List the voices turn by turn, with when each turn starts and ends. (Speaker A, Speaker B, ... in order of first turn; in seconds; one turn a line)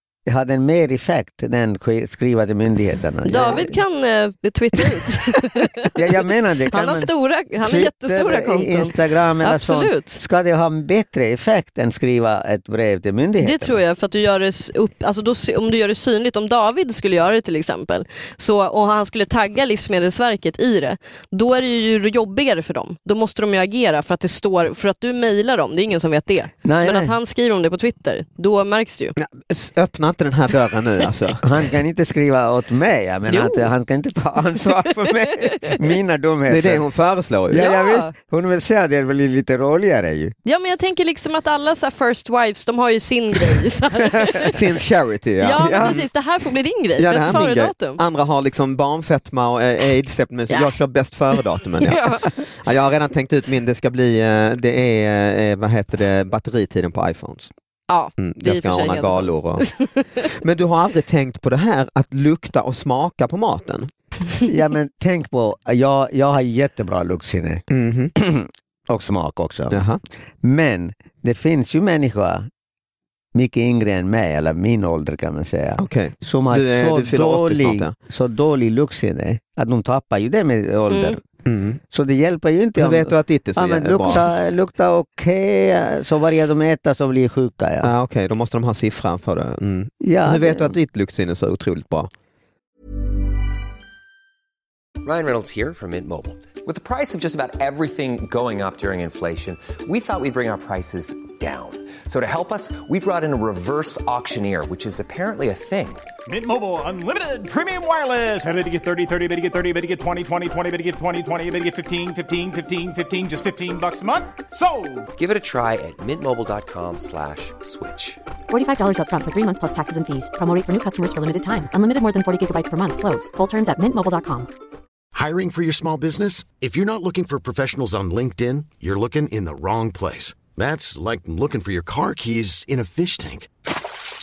Speaker A: 0.3-3.8
Speaker B: 3.3-6.0
Speaker A: 5.8-13.8
Speaker B: 6.7-10.2
Speaker B: 13.4-29.1
Speaker A: 26.6-27.1
Speaker C: 29.2-31.4
Speaker A: 31.4-36.9
Speaker B: 33.3-33.7
Speaker B: 35.4-35.7
Speaker C: 36.5-37.7
Speaker A: 37.5-40.3
Speaker B: 37.5-38.1
Speaker B: 40.5-44.6
Speaker C: 44.5-46.1
Speaker B: 45.4-48.0
Speaker A: 45.6-46.0
Speaker C: 47.0-57.5
Speaker B: 50.5-50.8
Speaker B: 51.3-52.3
Speaker B: 57.9-60.0
Speaker C: 58.2-59.7
Speaker C: 60.2-63.9
Speaker A: 64.5-67.7
Speaker C: 67.7-68.1
Speaker A: 68.2-69.8
Speaker C: 69.7-70.0
Speaker A: 70.4-72.5
Speaker A: 73.3-81.2
Speaker C: 75.8-77.9
Speaker B: 80.9-81.2
Speaker C: 81.5-81.8
Speaker A: 81.9-87.9
Speaker C: 82.8-84.2
Speaker C: 87.8-92.1
Speaker A: 90.0-90.8
Speaker D: 95.0-106.0
Speaker E: 106.3-115.1
Speaker D: 115.2-118.2
Speaker F: 118.5-124.5
Speaker G: 125.1-133.5